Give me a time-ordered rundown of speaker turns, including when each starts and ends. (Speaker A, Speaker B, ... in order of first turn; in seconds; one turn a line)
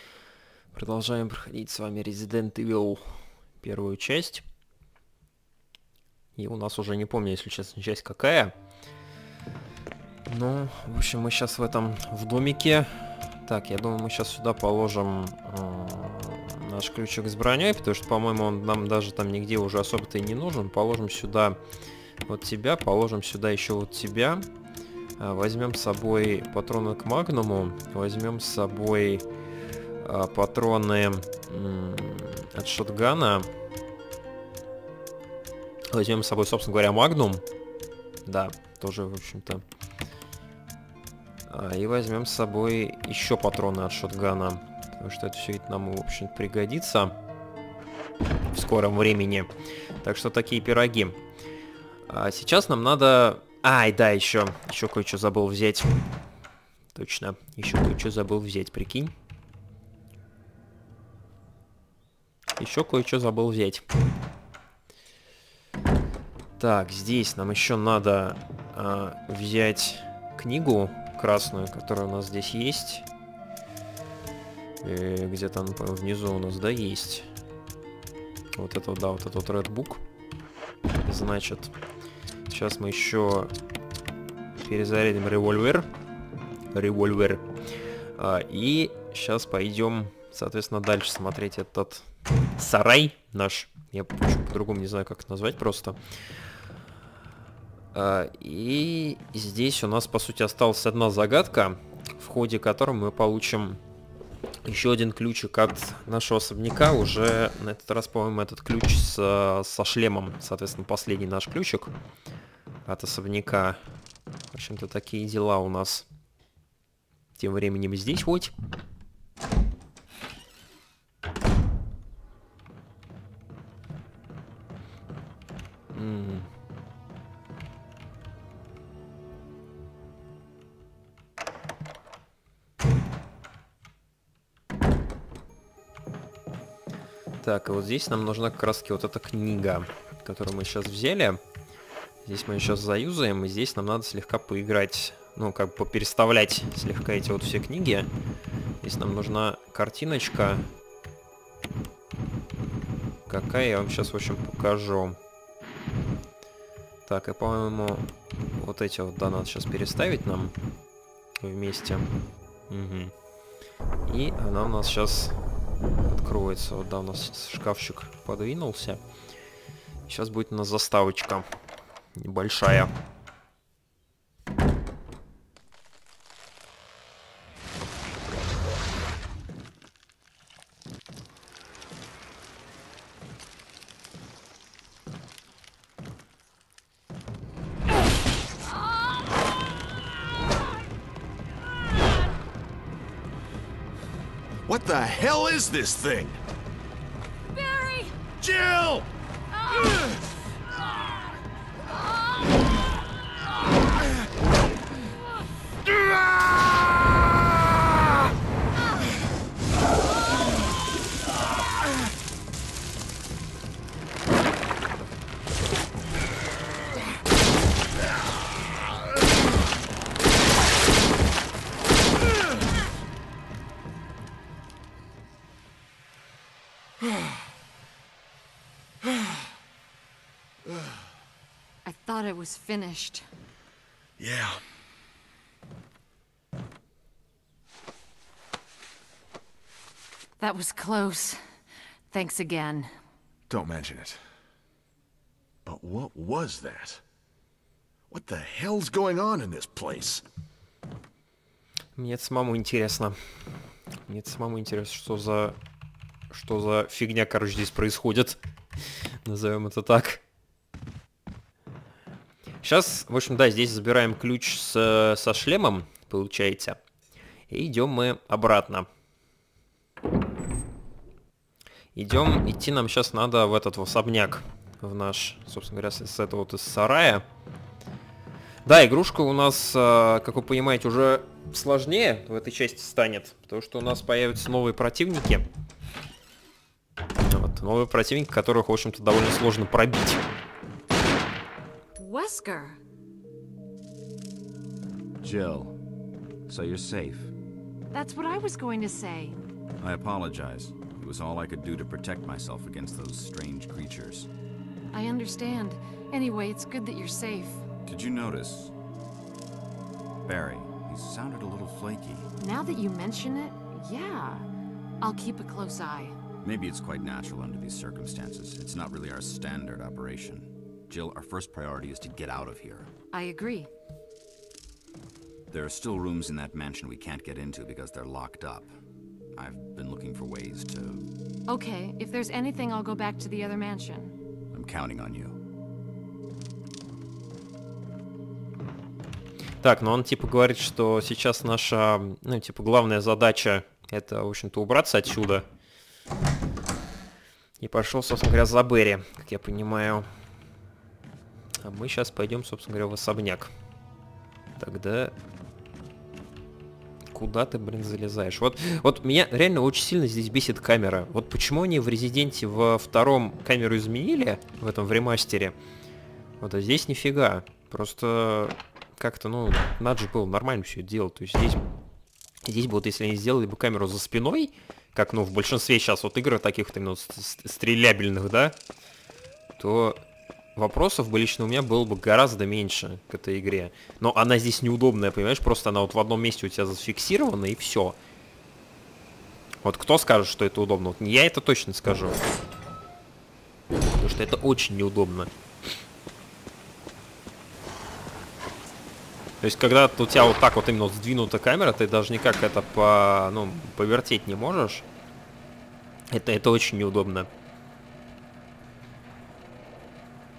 Speaker A: 0.7-4.4
Speaker A: 6.3-8.5
Speaker A: 10.3-21.6
Speaker A: 22.2-24.5
Speaker A: 25.2-29.2
Speaker A: 30.0-33.5
Speaker A: 35.9-37.4
Speaker A: 38.2-39.6
Speaker A: 41.5-47.1
Speaker A: 48.5-49.5
Speaker A: 50.0-51.2
Speaker A: 52.1-56.0
Speaker A: 56.9-59.1
Speaker A: 62.6-63.8
Speaker A: 66.6-73.0
Speaker A: 74.8-77.3
Speaker A: 78.5-80.0
Speaker A: 81.0-81.7
Speaker A: 82.5-83.5
Speaker A: 84.6-85.9
Speaker A: 86.7-87.5
Speaker A: 88.2-92.0
Speaker A: 92.6-96.0
Speaker A: 97.9-103.8
Speaker A: 104.6-111.9
Speaker A: 112.8-113.8
Speaker A: 114.5-116.1
Speaker A: 117.3-118.5
Speaker A: 125.9-126.5
Speaker A: 137.4-141.4
Speaker A: 142.2-148.1
Speaker A: 148.8-150.7
Speaker A: 153.3-155.2
Speaker A: 157.1-160.5
Speaker A: 161.4-162.1
Speaker A: 162.7-163.1
Speaker A: 164.1-165.4
Speaker A: 166.1-169.0
Speaker A: 170.1-171.4
Speaker A: 172.1-172.9
Speaker B: 194.7-196.4
Speaker C: 197.5-198.2
Speaker B: 198.4-199.1
Speaker C: 231.8-233.2
Speaker B: 234.2-234.6
Speaker C: 240.4-241.4
Speaker C: 242.1-242.9
Speaker B: 243.5-244.2
Speaker B: 245.6-247.0
Speaker B: 248.1-250.2
Speaker A: 251.9-253.2
Speaker A: 254.1-255.6
Speaker A: 256.3-258.4
Speaker A: 259.2-260.2
Speaker A: 262.6-266.8
Speaker A: 267.5-268.9
Speaker A: 271.9-277.2
Speaker A: 278.6-285.4
Speaker A: 287.2-290.2
Speaker C: 292.0-292.8
Speaker D: 295.2-295.8
Speaker D: 296.4-297.3
Speaker C: 297.9-299.4
Speaker D: 299.8-304.3
Speaker C: 304.9-307.6
Speaker D: 307.9-308.7
Speaker D: 310.2-312.3
Speaker C: 312.4-314.5
Speaker C: 315.0-316.1
Speaker D: 316.4-322.9
Speaker C: 323.1-323.7
Speaker D: 325.5-328.7
Speaker D: 329.3-331.1
Speaker C: 331.5-334.1
Speaker D: 334.5-335.4
Speaker A: 339.6-345.4
Speaker A: 347.6-350.1
Speaker A: 351.6-353.5
Speaker A: 354.6-355.1
Speaker A: 357.1-365.6
Speaker A: 366.4-371.6
Speaker A: 372.4-378.6
Speaker A: 379.6-380.0
Speaker A: 380.6-387.9
Speaker A: 389.6-392.2
Speaker A: 393.9-395.3
Speaker A: 399.4-404.8
Speaker A: 406.1-407.3